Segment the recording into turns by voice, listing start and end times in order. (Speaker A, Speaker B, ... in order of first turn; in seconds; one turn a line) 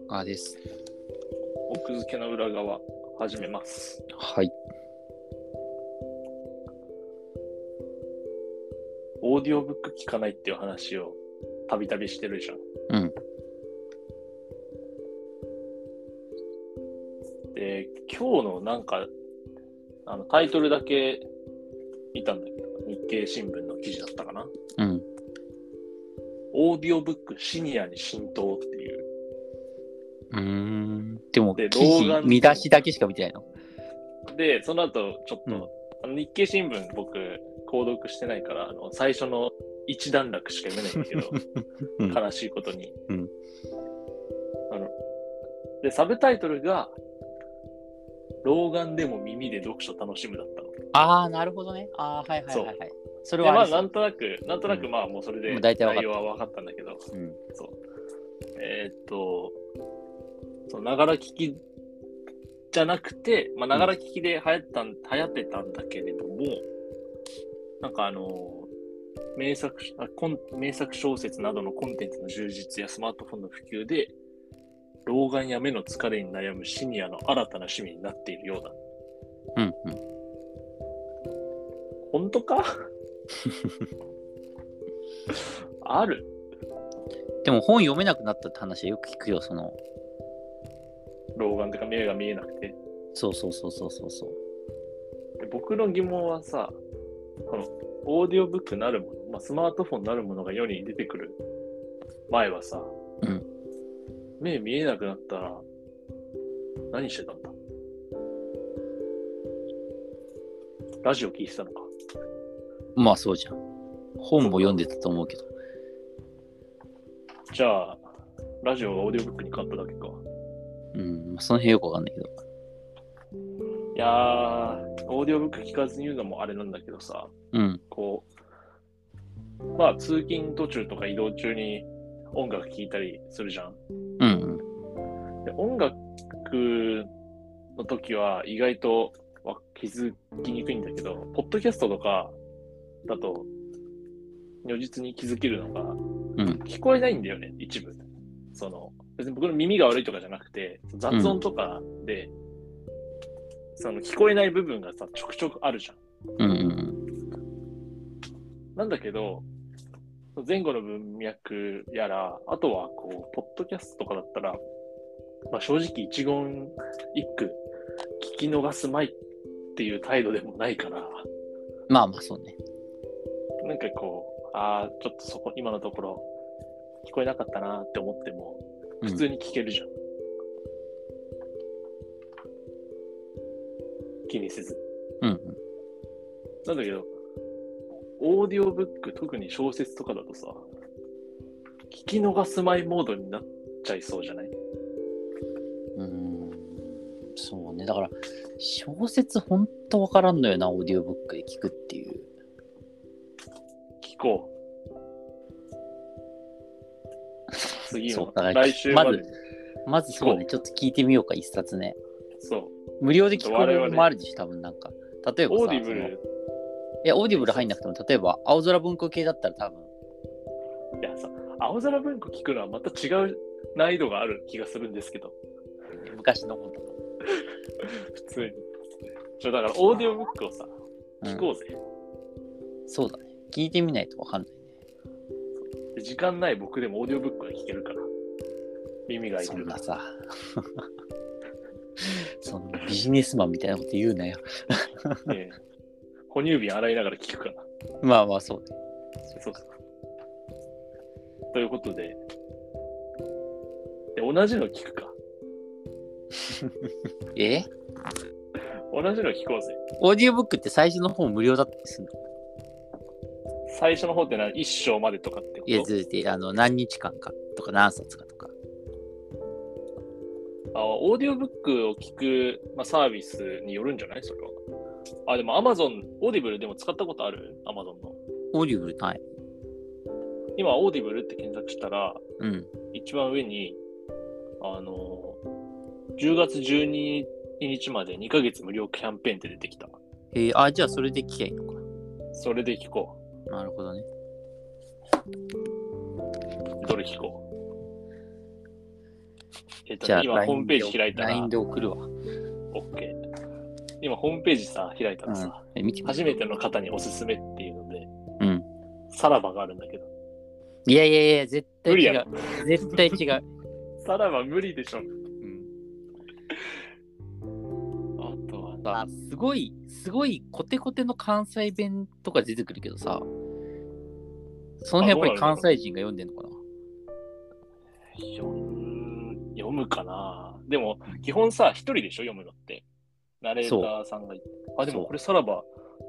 Speaker A: 0.1-0.6
Speaker B: 1.7-4.0
Speaker A: 4.2-4.5
Speaker B: 9.2-12.6
Speaker A: 12.9-13.1
Speaker B: 17.5-19.1
Speaker B: 20.1-21.2
Speaker B: 22.1-24.5
Speaker A: 24.8-25.1
Speaker B: 26.5-29.1
Speaker A: 30.3-33.4
Speaker B: 31.6-32.7
Speaker B: 34.3-41.4
Speaker A: 41.0-41.4
Speaker B: 42.0-42.9
Speaker B: 45.8-47.0
Speaker B: 48.4-50.7
Speaker A: 50.9-53.9
Speaker B: 52.5-52.7
Speaker B: 53.4-57.0
Speaker A: 55.5-56.2
Speaker A: 57.1-57.4
Speaker B: 58.6-59.6
Speaker B: 60.7-61.6
Speaker B: 62.7-66.7
Speaker B: 67.8-68.7
Speaker B: 69.3-74.1
Speaker B: 75.0-78.8
Speaker A: 79.5-80.0
Speaker B: 82.1-82.7
Speaker B: 85.3-86.3
Speaker A: 87.4-89.8
Speaker B: 91.3-92.8
Speaker A: 93.1-94.3
Speaker B: 95.4-96.8
Speaker B: 97.5-101.4
Speaker B: 102.3-102.9
Speaker B: 104.4-105.6
Speaker B: 106.9-107.5
Speaker B: 111.0-111.9
Speaker A: 113.0-113.6
Speaker A: 114.2-115.5
Speaker B: 114.4-114.8
Speaker B: 117.5-118.0
Speaker B: 118.6-120.2
Speaker A: 120.9-122.4
Speaker B: 123.9-127.3
Speaker A: 127.5-127.8
Speaker B: 127.9-128.3
Speaker B: 129.8-133.8
Speaker A: 134.2-134.6
Speaker B: 135.4-137.1
Speaker B: 137.8-142.4
Speaker B: 143.1-143.5
Speaker B: 144.6-146.0
Speaker B: 146.6-152.3
Speaker A: 151.1-151.4
Speaker B: 153.7-156.0
Speaker A: 156.4-157.0
Speaker B: 158.8-159.4
Speaker B: 160.3-164.6
Speaker B: 165.5-167.6
Speaker B: 168.2-169.2
Speaker B: 169.8-171.2
Speaker A: 171.9-172.6
Speaker B: 173.6-176.2
Speaker B: 177.0-179.9
Speaker B: 184.3-184.8
Speaker A: 185.2-185.6
Speaker B: 186.6-187.1
Speaker B: 188.2-190.6
Speaker B: 191.9-194.5
Speaker A: 195.9-202.3
Speaker B: 204.0-204.5
Speaker B: 207.6-209.3
Speaker A: 208.1-209.2
Speaker A: 209.8-212.0
Speaker B: 210.1-210.5
Speaker B: 212.4-212.8
Speaker A: 213.0-216.1
Speaker B: 213.3-214.1
Speaker B: 215.5-216.2
Speaker A: 217.0-219.9
Speaker B: 217.3-217.7
Speaker B: 221.0-225.3
Speaker A: 226.0-226.9
Speaker B: 227.4-228.7
Speaker B: 229.4-230.7
Speaker A: 231.2-231.5
Speaker B: 231.2-231.8
Speaker A: 232.9-234.6
Speaker B: 235.9-238.1
Speaker B: 239.1-239.8
Speaker A: 239.4-240.6
Speaker A: 242.0-245.3
Speaker B: 245.3-245.6
Speaker B: 246.3-247.7
Speaker A: 248.0-248.7
Speaker B: 249.3-249.7
Speaker B: 251.5-252.2
Speaker B: 254.2-255.2
Speaker A: 257.3-257.7
Speaker B: 258.9-259.8
Speaker A: 260.0-262.1
Speaker B: 263.7-265.9
Speaker A: 265.7-268.5
Speaker B: 270.7-274.5
Speaker B: 275.3-278.2
Speaker A: 278.5-279.2
Speaker B: 280.6-282.2
Speaker A: 282.4-282.7
Speaker B: 282.9-283.8
Speaker B: 284.6-285.4
Speaker B: 286.2-289.9
Speaker A: 290.3-291.8
Speaker B: 292.3-293.2
Speaker A: 293.5-294.1
Speaker B: 296.8-297.4
Speaker B: 299.9-301.5
Speaker A: 300.0-302.1
Speaker B: 302.7-303.2
Speaker B: 304.0-308.1
Speaker A: 305.2-306.4
Speaker A: 308.4-308.7
Speaker B: 309.1-310.1
Speaker A: 310.9-313.4
Speaker B: 311.9-313.1
Speaker B: 314.0-315.1
Speaker A: 315.4-315.7
Speaker B: 318.2-319.0
Speaker A: 318.8-323.3
Speaker A: 324.8-326.6
Speaker B: 325.0-325.7
Speaker B: 328.2-332.9
Speaker B: 333.4-335.7
Speaker A: 333.6-333.9
Speaker A: 334.8-335.1